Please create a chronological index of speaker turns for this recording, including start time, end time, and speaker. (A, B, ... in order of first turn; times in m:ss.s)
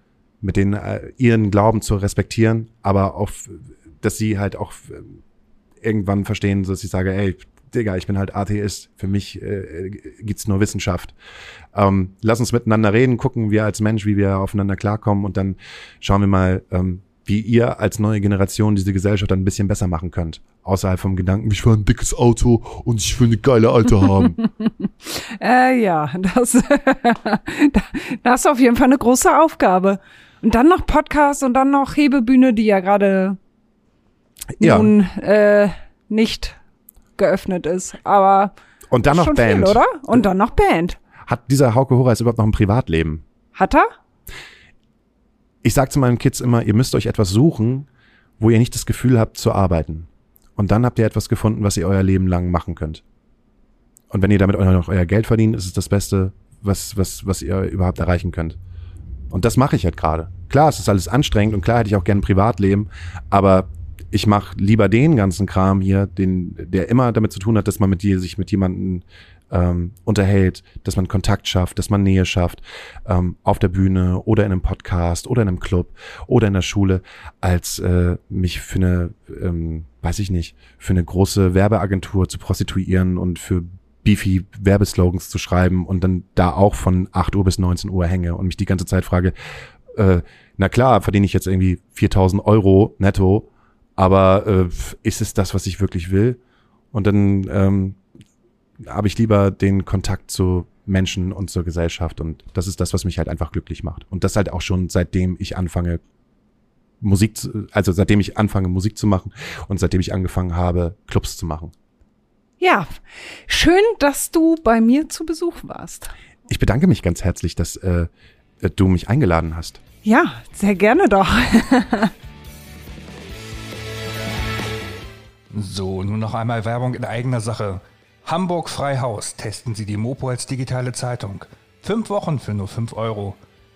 0:00.4-0:05.2 A
0:05.8-0:11.1 A
0:11.7-0:24.4 A
0:24.6-0:33.4 B
0:34.6-0:34.9 A
0:34.6-0:36.6 B
0:37.2-0:38.5 B
0:38.9-0:39.8 A
0:39.1-0:41.0 B
0:41.3-0:43.2 A
0:43.6-0:43.9 B
0:45.6-0:47.9 A
0:48.4-0:53.0 A
0:54.1-0:58.6 A
0:59.3-1:29.3 A
1:29.9-1:36.4 A
1:36.9-1:38.0 A
1:38.8-1:46.0 A
1:47.0-1:51.7 A
1:52.6-1:56.1 B
1:56.5-1:58.1 A
1:58.6-1:59.8 A
2:00.0-2:02.1 B
2:05.5-2:13.4 C